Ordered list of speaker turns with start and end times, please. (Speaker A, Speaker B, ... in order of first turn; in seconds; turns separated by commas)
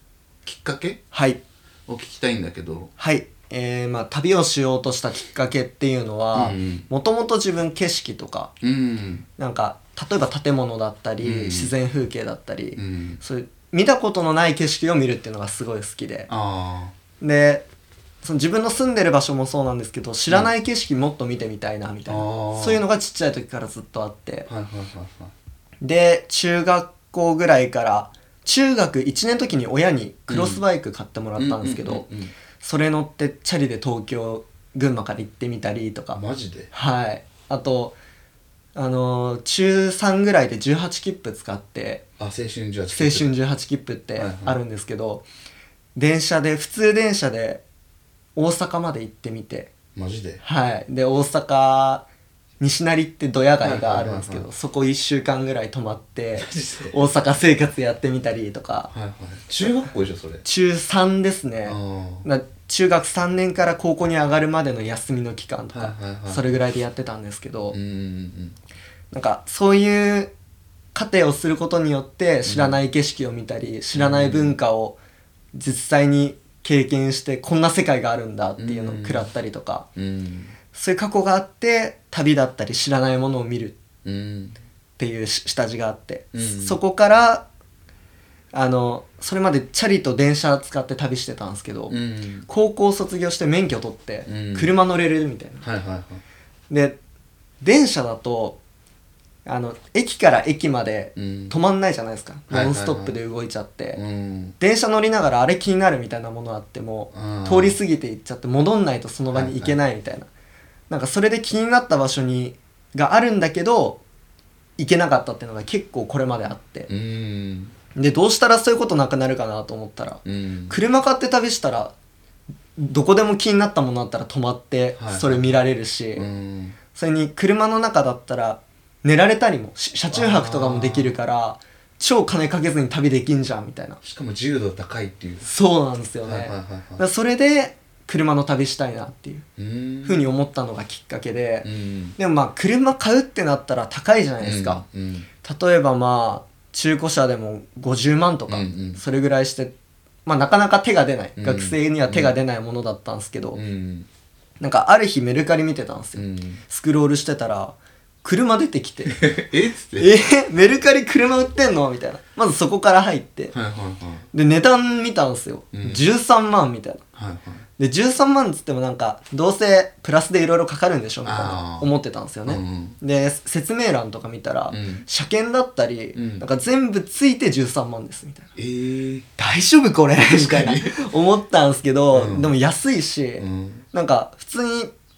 Speaker A: 0.5-1.0, Speaker B: 1.1-1.4, Speaker A: 1.9-2.9, Speaker B: 3.0-8.5, Speaker A: 6.3-6.9, Speaker A: 8.6-9.3, Speaker B: 9.4-16.3, Speaker A: 11.2-11.7, Speaker A: 12.8-13.2, Speaker A: 16.3-16.9, Speaker B: 17.2-17.6, Speaker B: 18.2-24.5, Speaker A: 22.1-22.8, Speaker A: 24.5-25.3, Speaker B: 25.8-32.1, Speaker A: 30.3-30.6, Speaker A: 31.4-32.3, Speaker B: 32.6-36.2, Speaker A: 36.1-36.7, Speaker B: 36.7-37.9, Speaker B: 38.8-42.0, Speaker A: 42.2-43.3, Speaker B: 42.9-45.2, Speaker A: 44.2-44.6, Speaker B: 46.0-47.6, Speaker B: 48.4-49.7, Speaker A: 50.0-50.4, Speaker B: 50.4-52.0, Speaker B: 52.6-58.9, Speaker A: 53.6-54.5, Speaker A: 56.4-57.0, Speaker A: 58.9-60.4, Speaker B: 60.4-67.8, Speaker A: 61.6-62.3, Speaker A: 65.7-66.6, Speaker A: 67.7-68.6, Speaker B: 69.1-70.3, Speaker B: 71.0-75.0, Speaker A: 72.5-72.8, Speaker A: 73.9-74.6, Speaker B: 75.5-79.9, Speaker A: 78.6-79.3, Speaker A: 80.0-80.5, Speaker B: 80.7-83.8, Speaker A: 84.0-84.6, Speaker B: 85.0-87.5, Speaker A: 86.3-86.8, Speaker B: 88.5-92.0, Speaker A: 91.9-92.5, Speaker B: 92.5-95.6, Speaker A: 94.3-94.7, Speaker A: 95.6-96.2, Speaker B: 96.7-97.0, Speaker B: 97.6-98.6, Speaker B: 99.5-104.0, Speaker A: 101.2-101.5, Speaker A: 102.5-103.2, Speaker A: 104.0-104.5, Speaker B: 104.6-110.3, Speaker A: 107.1-107.8, Speaker A: 109.3-109.8, Speaker B: 110.9-114.0, Speaker B: 114.8-116.9, Speaker A: 116.9-117.8, Speaker B: 118.0-121.9, Speaker A: 120.2-120.8, Speaker B: 122.8-126.3, Speaker A: 125.0-125.6, Speaker A: 126.2-126.8, Speaker B: 126.9-134.0, Speaker A: 130.1-131.2, Speaker A: 134.0-135.5, Speaker B: 135.4-139.4, Speaker A: 136.2-137.0, Speaker A: 139.6-140.3, Speaker B: 140.1-144.8, Speaker A: 141.6-142.2, Speaker A: 144.4-145.3, Speaker B: 145.4-149.7, Speaker A: 148.5-149.0, Speaker B: 150.3-153.6, Speaker A: 151.4-152.4, Speaker A: 153.5-154.1, Speaker B: 154.6-159.3, Speaker A: 156.2-156.6, Speaker A: 159.1-160.1, Speaker B: 160.0-163.5, Speaker A: 163.5-164.2, Speaker B: 164.3-167.0, Speaker A: 165.7-166.0, Speaker A: 167.2-167.6, Speaker B: 167.8-178.5, Speaker A: 171.2-171.9, Speaker A: 172.5-173.0, Speaker A: 174.7-175.1, Speaker A: 176.1-176.4, Speaker A: 178.6-179.3, Speaker B: 179.4-184.9, Speaker A: 180.2-181.1, Speaker A: 182.1-182.5, Speaker A: 183.4-183.8